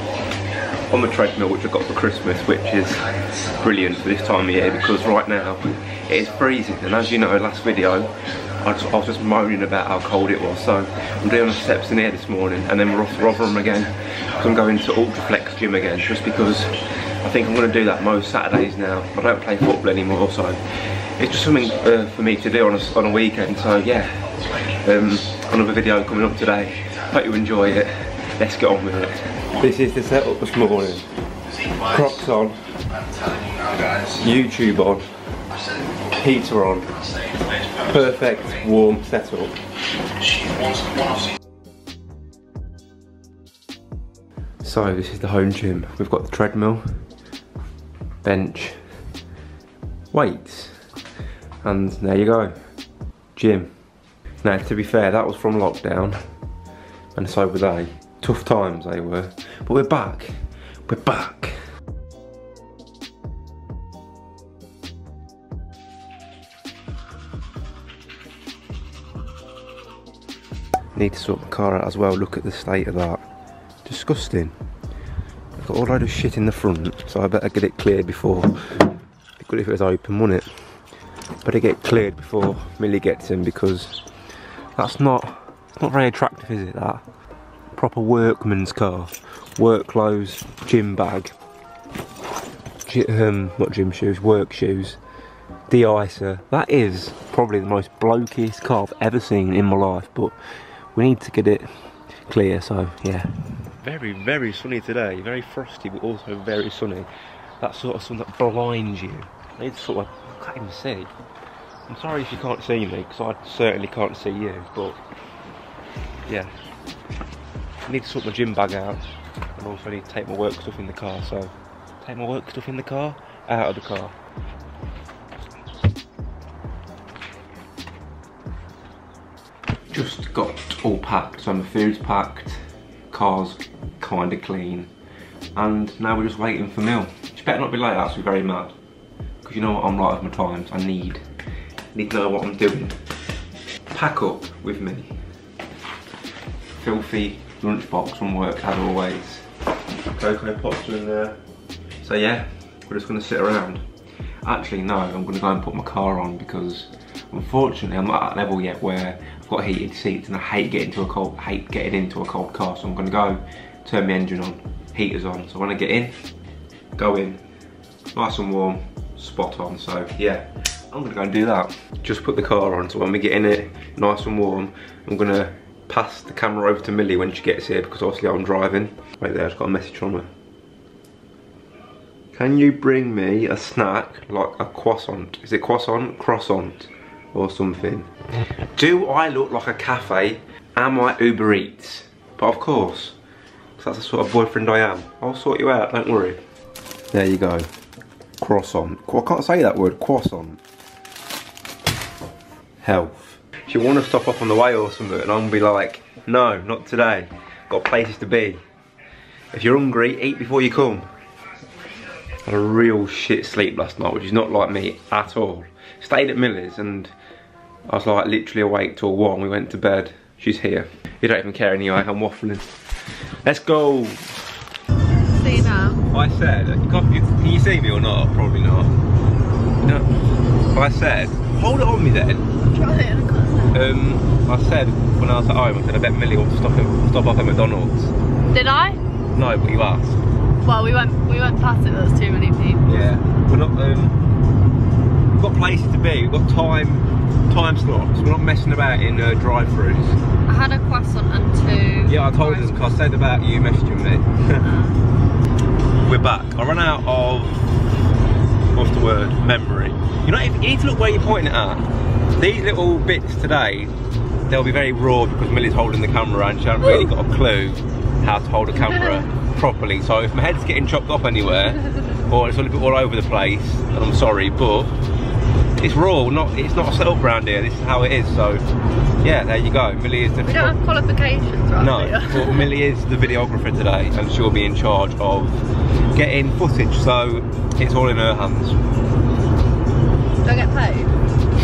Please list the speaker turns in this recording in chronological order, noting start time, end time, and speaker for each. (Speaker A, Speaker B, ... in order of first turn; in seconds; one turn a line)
Speaker A: 0.9-31.1
Speaker A: 31.8-32.6
Speaker A: 34.1-35.2
Speaker A: 36.1-36.9
Speaker A: 37.8-39.6
Speaker A: 44.6-47.0
Speaker A: 48.2-49.0
Speaker A: 50.1-50.9
Speaker A: 51.6-52.6
Speaker A: 53.4-53.7
Speaker A: 54.4-56.2
Speaker A: 57.1-60.3
Speaker A: 60.9-61.6
Speaker A: 71.0-73.2
Speaker A: 73.8-74.6
Speaker A: 75.6-80.8
Speaker A: 81.4-84.0
Speaker A: 84.8-87.0
Speaker A: 87.7-91.3
Speaker A: 92.9-95.0
Speaker A: 95.7-107.1
Speaker A: 107.6-111.1
Speaker A: 111.9-115.0
Speaker A: 116.3-116.5
Speaker A: 117.9-119.0
Speaker A: 119.6-124.2
Speaker A: 129.9-134.9
Speaker A: 135.6-138.8
Speaker A: 139.4-141.2
Speaker A: 141.9-143.0
Speaker A: 143.9-145.1
Speaker A: 146.8-149.5
Speaker A: 150.1-151.4
Speaker A: 152.0-153.8
Speaker A: 154.4-166.3
Speaker A: 167.0-167.4
Speaker A: 168.2-180.3
Speaker A: 182.3-188.1
Speaker A: 188.7-193.2
Speaker A: 193.8-196.4
Speaker A: 197.1-197.7
Speaker A: 198.4-200.6
Speaker A: 202.8-208.6
Speaker A: 209.5-211.1
Speaker A: 212.4-217.1
Speaker A: 217.9-224.5
Speaker B: 225.4-226.0
Speaker A: 226.1-229.0
Speaker A: 229.8-230.1
Speaker A: 230.7-232.5
Speaker B: 232.6-233.8
Speaker A: 233.7-238.1
Speaker B: 238.5-239.0
Speaker A: 239.3-240.2
Speaker B: 240.6-242.8
Speaker A: 242.8-244.2
Speaker A: 245.3-250.2
Speaker B: 250.5-252.9
Speaker A: 252.1-254.7
Speaker B: 254.6-255.0
Speaker A: 256.1-257.6
Speaker A: 258.7-261.9
Speaker A: 262.4-263.9
Speaker A: 264.5-274.9
Speaker B: 268.8-269.2
Speaker A: 275.8-278.6
Speaker A: 279.2-280.8
Speaker B: 280.5-282.7
Speaker A: 281.8-285.6
Speaker A: 286.1-288.8
Speaker B: 290.4-291.1